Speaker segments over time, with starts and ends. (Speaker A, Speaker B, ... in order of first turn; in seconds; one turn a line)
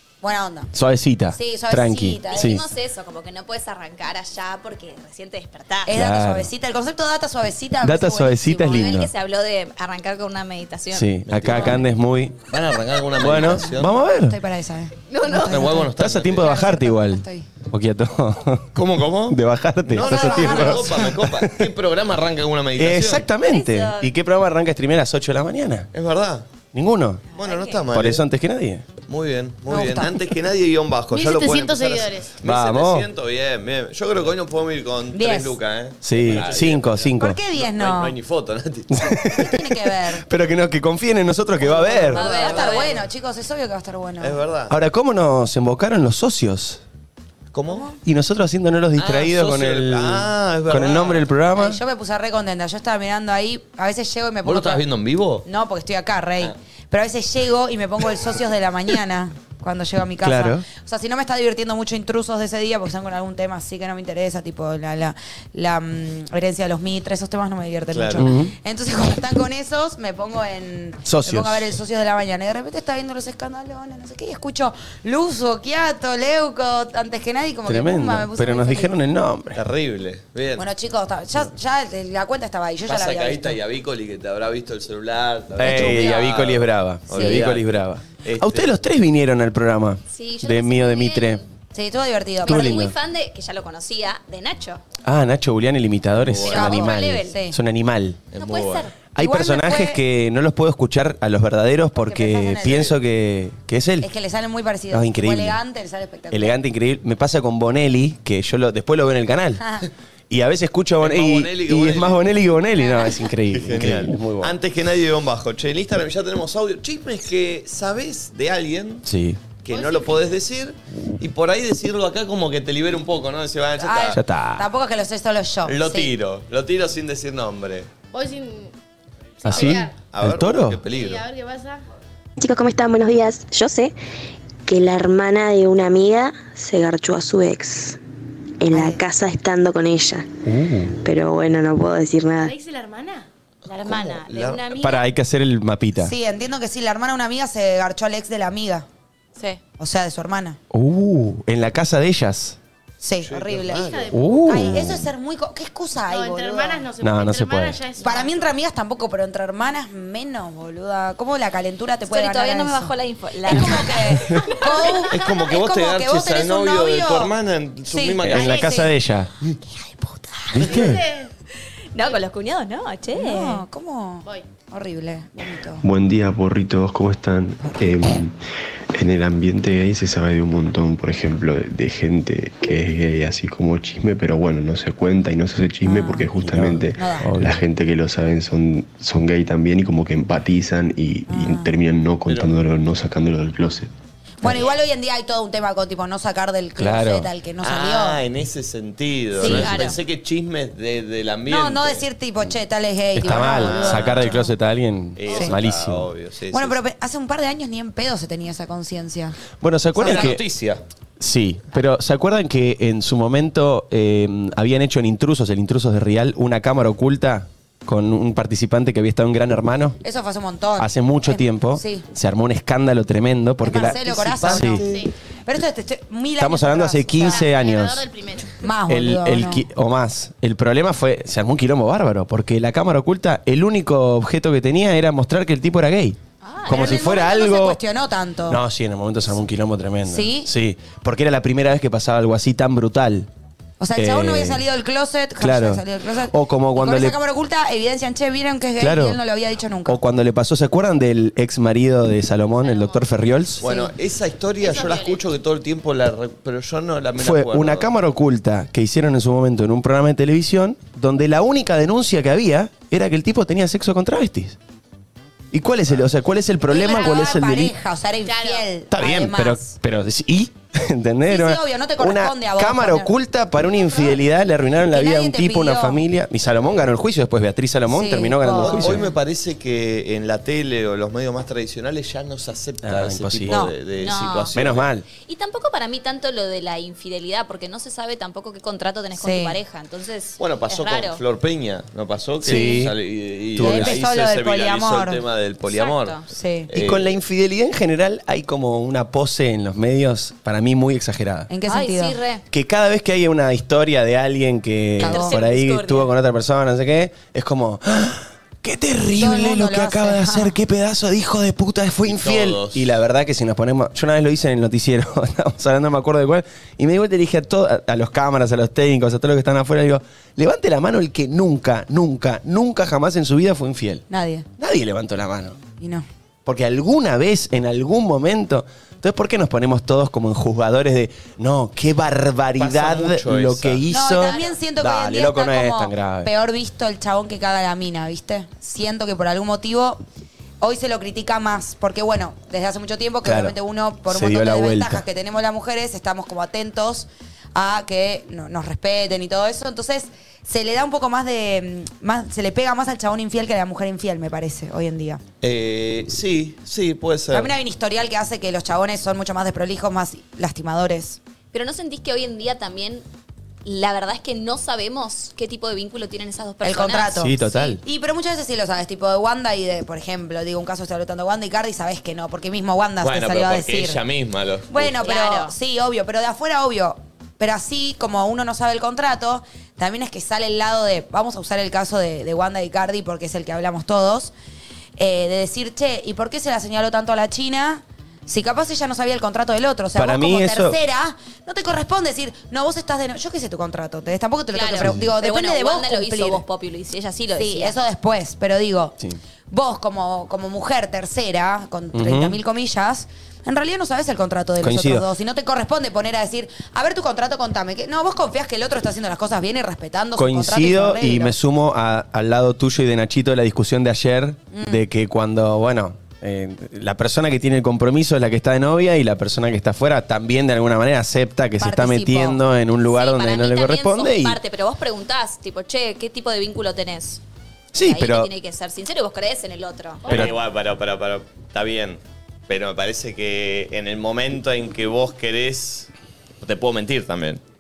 Speaker A: 0.2-0.7
Speaker B: 0.7-2.7
Speaker A: 1.3-2.6
Speaker C: 2.3-6.0
Speaker A: 5.9-9.0
Speaker B: 5.9-6.5
Speaker B: 7.8-9.1
Speaker C: 8.7-11.1
Speaker B: 10.9-12.5
Speaker D: 11.3-11.9
Speaker D: 12.5-14.0
Speaker B: 13.2-14.4
Speaker A: 13.2-17.5
Speaker C: 15.1-15.7
Speaker D: 15.4-16.5
Speaker B: 15.9-18.7
Speaker D: 18.7-23.3
Speaker B: 19.3-21.7
Speaker A: 20.0-21.1
Speaker B: 22.8-25.9
Speaker C: 23.4-24.1
Speaker D: 25.9-26.5
Speaker B: 26.7-27.2
Speaker C: 27.3-27.8
Speaker D: 27.4-28.2
Speaker B: 27.9-28.9
Speaker D: 29.1-39.0
Speaker A: 29.7-30.2
Speaker E: 31.1-32.4
Speaker B: 32.4-33.1
Speaker A: 35.1-35.6
Speaker B: 36.0-37.4
Speaker A: 37.2-38.1
Speaker B: 38.9-42.3
Speaker A: 39.3-40.3
Speaker A: 41.6-44.4
Speaker C: 42.1-43.0
Speaker D: 42.4-42.9
Speaker D: 44.2-44.8
Speaker B: 44.7-46.8
Speaker D: 47.5-47.9
Speaker B: 48.0-51.8
Speaker D: 49.0-51.3
Speaker A: 51.5-54.8
Speaker D: 54.5-55.5
Speaker A: 55.4-79.0
Speaker B: 60.2-60.6
Speaker D: 67.9-68.3
Speaker B: 68.2-68.5
Speaker B: 71.1-71.7
Speaker B: 77.7-79.6
Speaker D: 79.5-80.7
Speaker A: 80.6-83.6
Speaker D: 82.8-87.7
Speaker B: 85.6-91.4
Speaker A: 85.6-86.2
Speaker D: 88.2-88.7
Speaker C: 90.1-91.4
Speaker A: 91.7-92.8
Speaker C: 92.4-94.8
Speaker B: 92.4-92.9
Speaker B: 95.0-98.2
Speaker D: 96.2-96.8
Speaker C: 96.4-97.4
Speaker A: 96.5-97.6
Speaker D: 98.3-98.9
Speaker C: 98.3-98.9
Speaker B: 99.2-104.1
Speaker A: 99.2-100.0
Speaker A: 102.0-102.9
Speaker D: 102.6-103.0
Speaker A: 104.0-106.6
Speaker B: 104.9-105.6
Speaker B: 106.3-109.6
Speaker B: 110.3-114.5
Speaker D: 111.0-112.2
Speaker D: 113.5-119.0
Speaker B: 119.0-119.4
Speaker D: 119.6-124.2
Speaker E: 119.7-120.3
Speaker A: 123.8-126.1
Speaker B: 124.1-124.7
Speaker D: 125.7-127.9
Speaker E: 128.1-128.7
Speaker E: 129.4-130.0
Speaker B: 129.4-130.8
Speaker D: 129.5-131.2
Speaker E: 130.9-131.8
Speaker F: 132.4-133.9
Speaker F: 134.7-138.0
Speaker F: 138.6-140.3
Speaker A: 138.7-139.0
Speaker B: 140.5-140.9
Speaker F: 140.9-142.5
Speaker E: 142.4-143.3
Speaker C: 143.7-145.1
Speaker D: 143.7-144.6
Speaker B: 144.8-146.1
Speaker A: 146.0-148.9
Speaker A: 149.8-150.6
Speaker B: 150.7-152.6
Speaker A: 153.0-156.9
Speaker D: 153.2-154.5
Speaker E: 153.7-154.8
Speaker B: 154.1-155.1
Speaker E: 156.1-158.6
Speaker B: 157.0-157.8
Speaker A: 158.0-167.3
Speaker C: 162.1-164.8
Speaker B: 163.5-164.5
Speaker D: 165.1-168.7
Speaker A: 167.9-168.9
Speaker B: 168.2-169.5
Speaker E: 168.3-168.9
Speaker A: 169.6-170.8
Speaker B: 170.5-171.0
Speaker E: 170.6-171.3
Speaker C: 171.9-173.6
Speaker A: 173.1-175.8
Speaker G: 175.8-178.4
Speaker A: 177.6-178.2
Speaker G: 178.9-193.9
Speaker A: 185.8-186.3
Speaker B: 186.3-187.6
Speaker A: 187.0-187.3
Speaker A: 191.3-191.8
Speaker A: 194.4-198.2
Speaker B: 196.8-197.3
Speaker D: 197.6-202.1
Speaker A: 199.4-199.9
Speaker C: 199.4-200.0
Speaker B: 199.4-199.7
Speaker A: 201.5-204.6
Speaker B: 203.1-206.1
Speaker D: 203.2-204.4
Speaker D: 205.2-206.8
Speaker A: 205.3-205.6
Speaker A: 206.5-209.4
Speaker B: 209.6-210.4
Speaker A: 210.0-210.4
Speaker D: 210.0-210.8
Speaker B: 211.2-220.0
Speaker A: 220.0-222.1
Speaker B: 220.8-224.8
Speaker A: 223.6-224.9
Speaker D: 223.8-225.1
Speaker E: 224.8-225.1
Speaker A: 225.5-227.5
Speaker B: 226.4-228.1
Speaker E: 227.2-228.6
Speaker A: 228.6-229.6
Speaker B: 228.9-237.8
Speaker C: 236.4-237.1
Speaker A: 236.7-238.6
Speaker B: 238.5-243.3
Speaker A: 240.1-240.5
Speaker A: 243.8-250.0
Speaker B: 243.9-244.6
Speaker B: 245.4-247.2
Speaker B: 248.8-249.2
Speaker B: 249.9-253.6
Speaker E: 252.7-253.0
Speaker D: 253.6-257.9
Speaker A: 253.6-253.9
Speaker E: 254.6-255.2
Speaker B: 257.2-264.6
Speaker B: 265.5-267.8
Speaker A: 266.7-269.7
Speaker E: 268.2-268.7
Speaker B: 268.9-279.1
Speaker A: 271.3-273.1
Speaker A: 273.8-274.2
Speaker A: 274.9-276.0
Speaker A: 277.9-279.1
Speaker D: 278.6-284.9
Speaker B: 282.8-283.7
Speaker A: 283.5-283.7
Speaker C: 284.0-284.5
Speaker B: 284.5-285.1
Speaker C: 285.3-291.2
Speaker A: 289.2-289.6
Speaker D: 290.4-297.1
Speaker B: 292.4-293.0
Speaker B: 293.6-294.0
Speaker A: 293.6-295.2
Speaker C: 295.7-296.2
Speaker A: 296.3-296.7
Speaker B: 296.7-301.5
Speaker A: 301.5-302.2
Speaker C: 301.7-302.4
Speaker B: 302.5-324.1
Speaker A: 305.0-305.4
Speaker C: 305.0-306.1
Speaker A: 309.1-310.6
Speaker D: 312.1-312.9
Speaker A: 324.1-324.5
Speaker B: 324.6-325.6
Speaker A: 325.8-326.1
Speaker B: 326.5-336.3
Speaker D: 332.6-333.9
Speaker A: 333.9-340.0
Speaker E: 334.2-334.6
Speaker A: 340.6-355.2
Speaker B: 343.2-343.6
Speaker B: 344.1-345.0
Speaker D: 355.4-357.5
Speaker A: 357.3-361.2
Speaker C: 361.5-363.1
Speaker C: 363.6-367.8
Speaker A: 366.6-374.0
Speaker B: 367.2-367.8
Speaker D: 373.0-375.0
Speaker A: 374.7-384.3
Speaker C: 375.0-375.5
Speaker A: 385.0-396.4
Speaker B: 389.9-390.8
Speaker C: 394.5-397.8
Speaker A: 397.4-399.0
Speaker A: 399.5-411.3
Speaker B: 401.9-402.4
Speaker B: 404.6-405.1
Speaker B: 410.2-424.4
Speaker A: 414.5-414.8
Speaker A: 421.6-422.4
Speaker C: 422.9-427.2
Speaker B: 427.7-428.3
Speaker C: 427.8-430.1
Speaker E: 430.1-430.3
Speaker D: 430.1-435.9
Speaker B: 430.1-430.4
Speaker D: 436.4-437.4